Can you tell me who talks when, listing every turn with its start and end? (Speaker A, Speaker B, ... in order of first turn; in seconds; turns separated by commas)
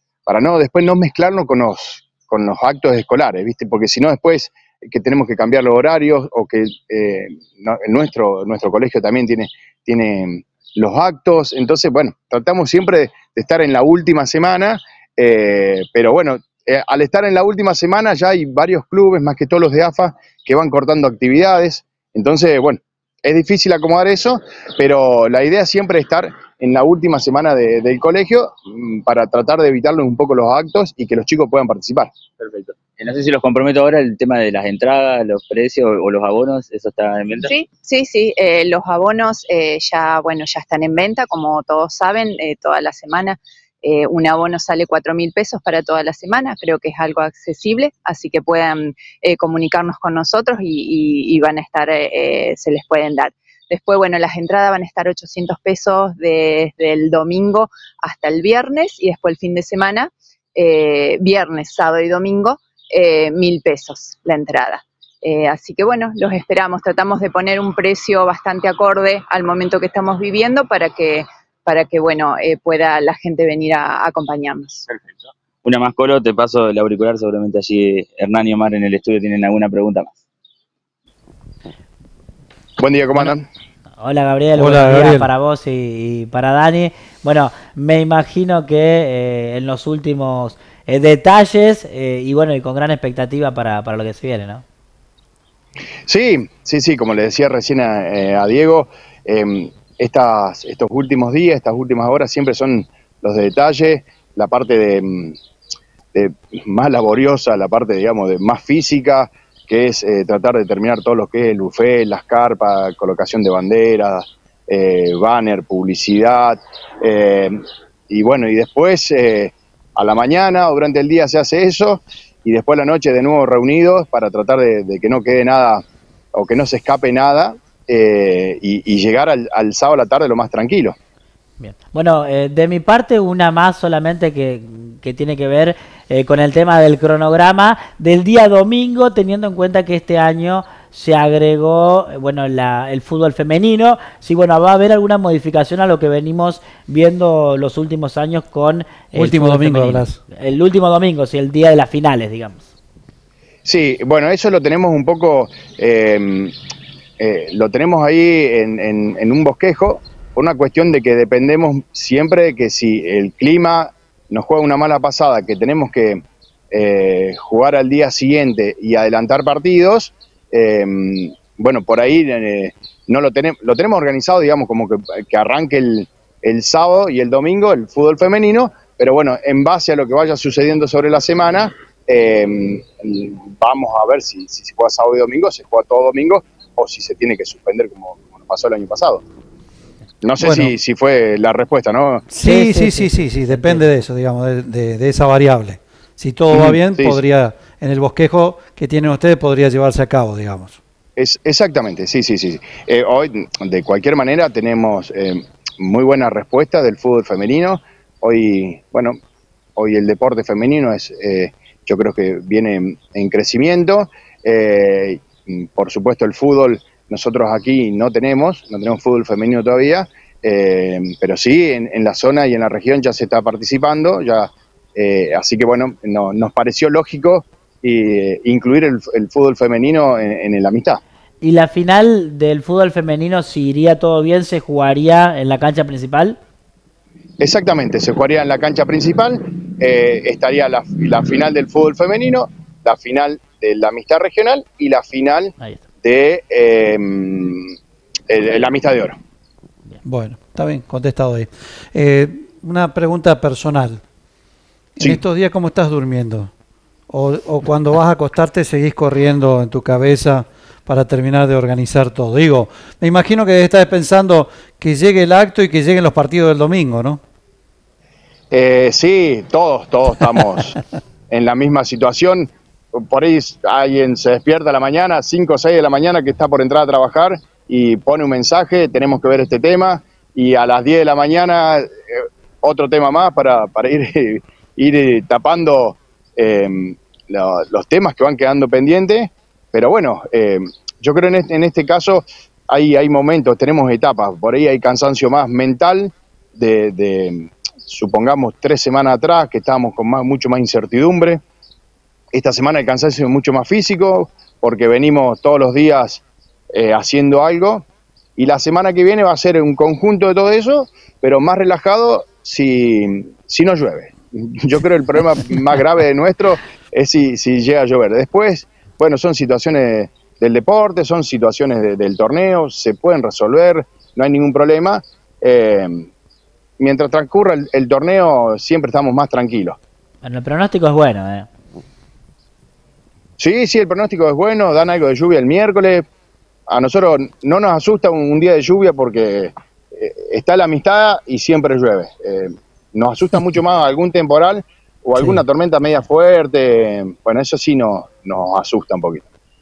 Speaker A: 0.2-32.1, Speaker B: 32.4-37.5, Speaker C: 37.5-74.8, Speaker B: 74.9-80.2, Speaker A: 82.8-83.4, Speaker D: 84.0-94.6, Speaker E: 84.6-85.3, Speaker A: 96.1-105.3, Speaker A: 106.1-130.9, Speaker D: 131.6-152.7, Speaker E: 149.1-150.1, Speaker A: 153.6-156.5, Speaker A: 157.2-189.2, Speaker A: 190.2-192.3, Speaker E: 190.4-190.7, Speaker E: 192.3-200.7, Speaker D: 192.4-193.8, Speaker A: 196.5-197.2, Speaker A: 201.2-209.2, Speaker A: 209.8-231.0, Speaker D: 231.4-236.4, Speaker A: 237.4-247.7, Speaker A: 248.3-249.2, Speaker E: 250.0-254.0, Speaker E: 255.0-256.5, Speaker E: 257.1-267.2, Speaker A: 268.5-270.8, Speaker A: 271.3-301.4, Speaker A: 302.3-307.9, Speaker A: 308.4-326.1, Speaker A: 326.8-329.8, Speaker D: 330.2-331.5, Speaker A: 333.4-336.1, Speaker A: 336.7-349.2